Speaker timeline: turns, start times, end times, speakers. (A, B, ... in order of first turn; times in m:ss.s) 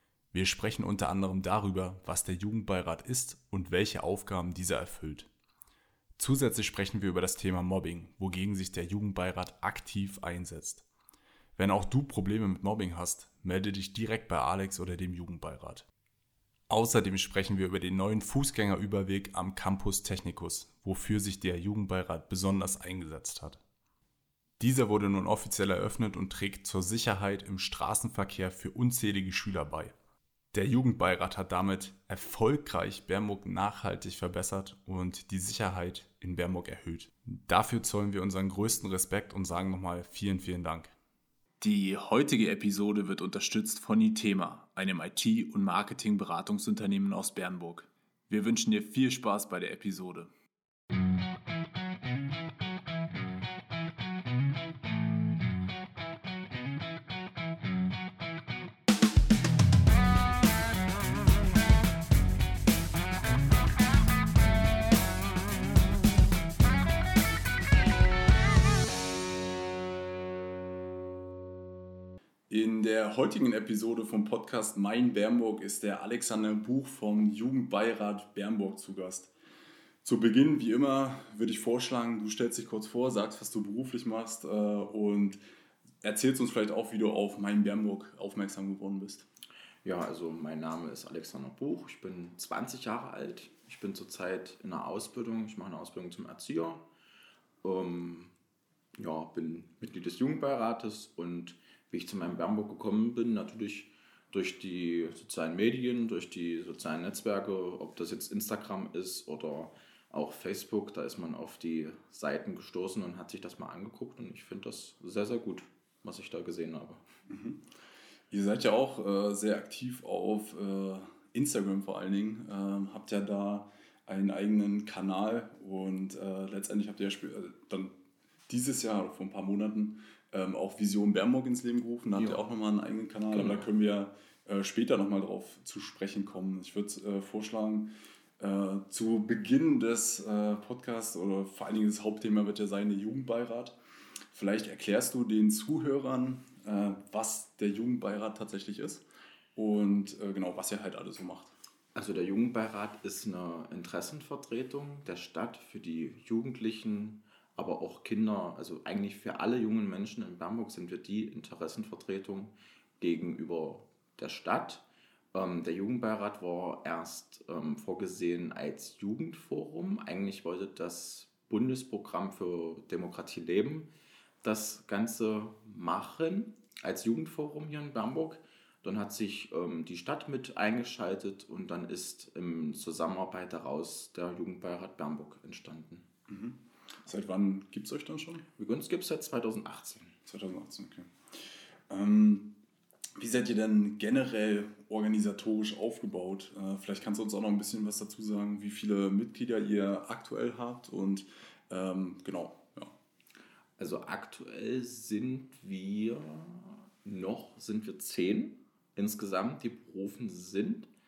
0:00.3-0:05.3 A
0:06.2-0:10.8 A
0:11.6-0:15.9 A
0:16.7-0:23.6 A
0:24.6-0:29.9 A
0:30.5-0:40.9 A
0:41.6-0:50.3 A
1:12.5-1:19.3 A
1:20.0-1:25.4 A
1:26.0-1:29.2 A
1:29.8-1:36.8 B
1:37.6-1:38.3 B
1:39.0-1:57.0 B
1:57.3-1:57.7 A
1:58.3-2:07.9 A
2:08.5-2:23.8 A
2:13.3-2:13.7 B
2:24.3-2:29.0 A
2:29.5-2:31.5 A
2:31.9-2:53.9 B
2:54.4-3:06.0 B
3:06.3-3:08.4 A
3:08.6-3:10.2 B
3:10.2-3:12.5 A
3:13.2-3:22.9 A
3:23.8-3:30.9 B